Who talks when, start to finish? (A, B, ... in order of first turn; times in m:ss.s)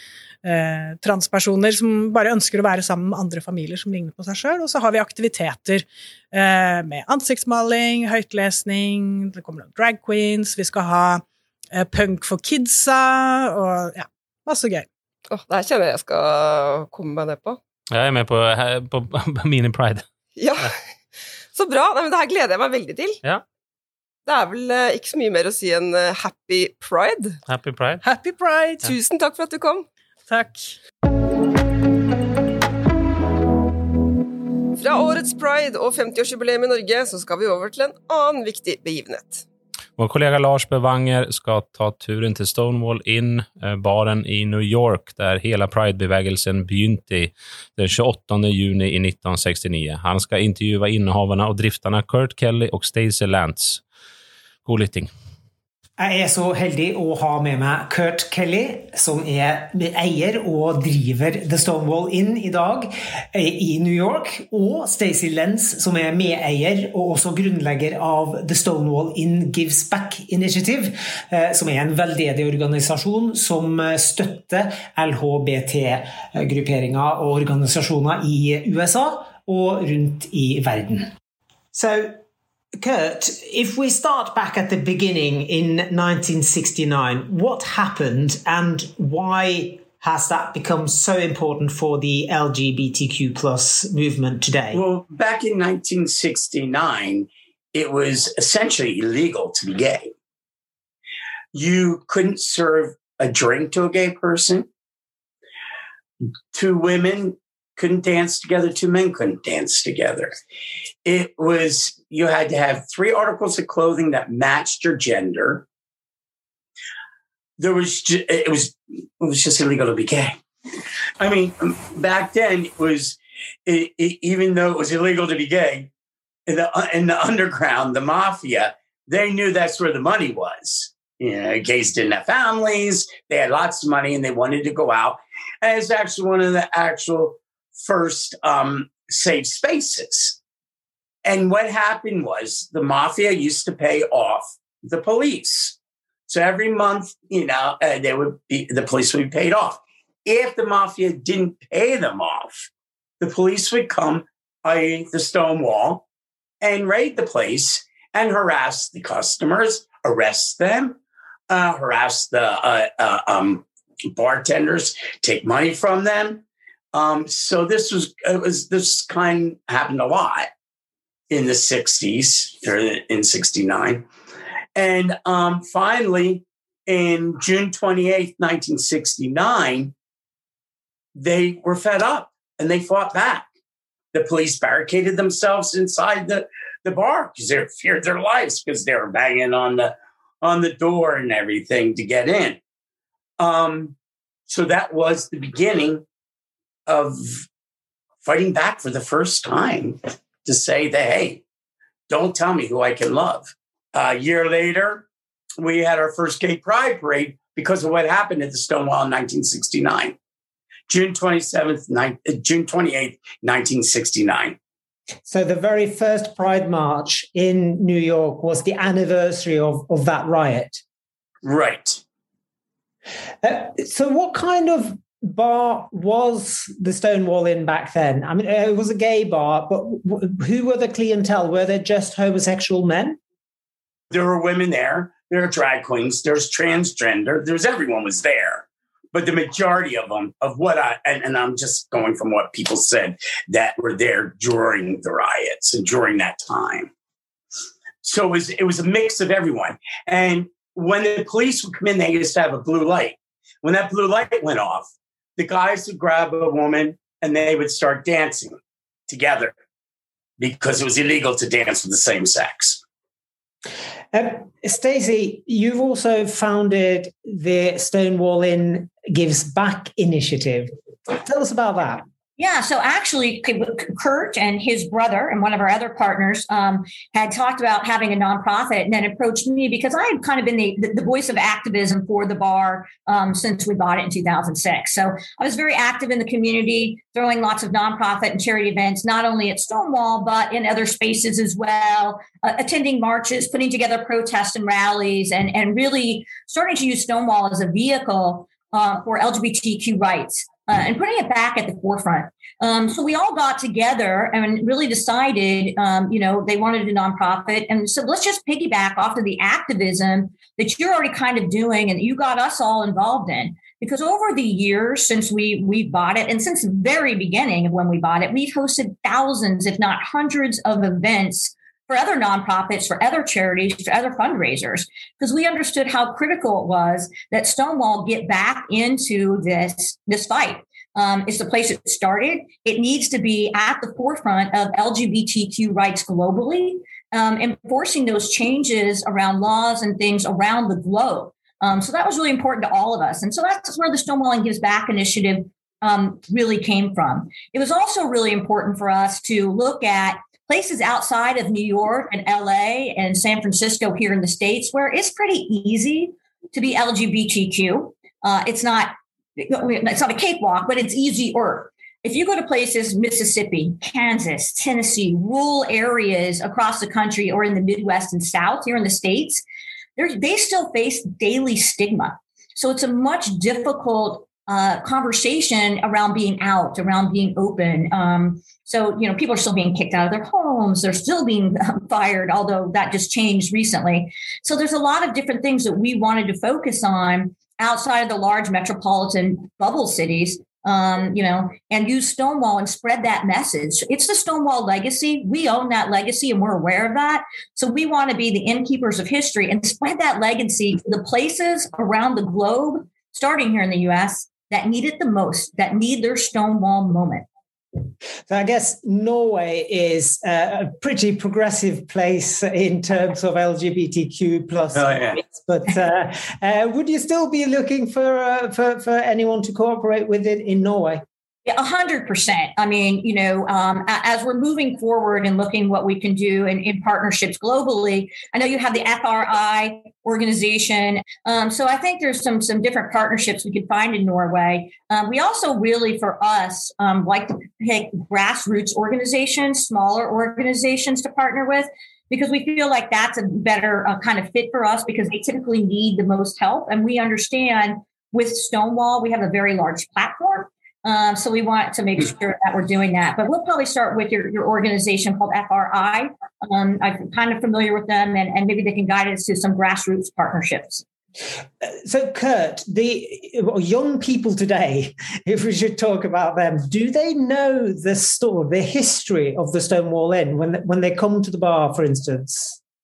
0:00.4-0:14.9 A
0:15.3-0:17.6 B
0:17.9-0:20.0 C
0:20.4-0:20.8 B
0:21.5-0:23.2 B
0:24.2-0:27.4 B
0:27.5-0:28.0 C
0:28.0-0:28.9 A
0:28.8-0:29.8 B
0:30.3-0:30.8 A
0:34.7-0:39.4 B
0:40.0-0:53.8 C
0:54.6-0:55.1 C
0:56.0-1:21.1 D
1:21.7-1:22.2 D
1:22.8-1:34.8 D
1:34.7-1:40.1 E
1:41.5-1:44.7 E
1:46.5-1:50.3 E
1:51.0-1:55.6 E
1:57.6-2:00.4 E
2:01.2-2:05.9 E
2:06.5-2:20.4 E
2:21.2-2:32.7 E
2:33.2-2:36.0 E
2:36.6-2:41.0 E
2:41.5-2:50.5 E
2:51.3-2:54.0 E
2:54.8-2:59.9 E
3:01.2-3:03.5 E
3:04.1-3:12.6 E
3:13.4-3:14.0 E
3:14.5-3:16.0 E
3:16.9-3:17.5 E
3:18.2-3:21.4 E
3:22.1-3:25.0 E
3:25.6-3:30.2 E
3:30.9-3:34.6 E
3:35.2-3:40.8 D
3:41.4-3:42.0 E
3:43.4-3:53.2 D
3:54.1-4:06.9 E
4:08.0-4:19.5 E
4:20.4-4:22.8 E
4:24.1-4:32.0 D
4:32.4-6:09.4 F
6:10.0-6:47.2 F
6:48.3-7:01.0 D
6:54.7-6:55.2 E
7:01.4-7:40.8 F
7:41.6-7:52.6 D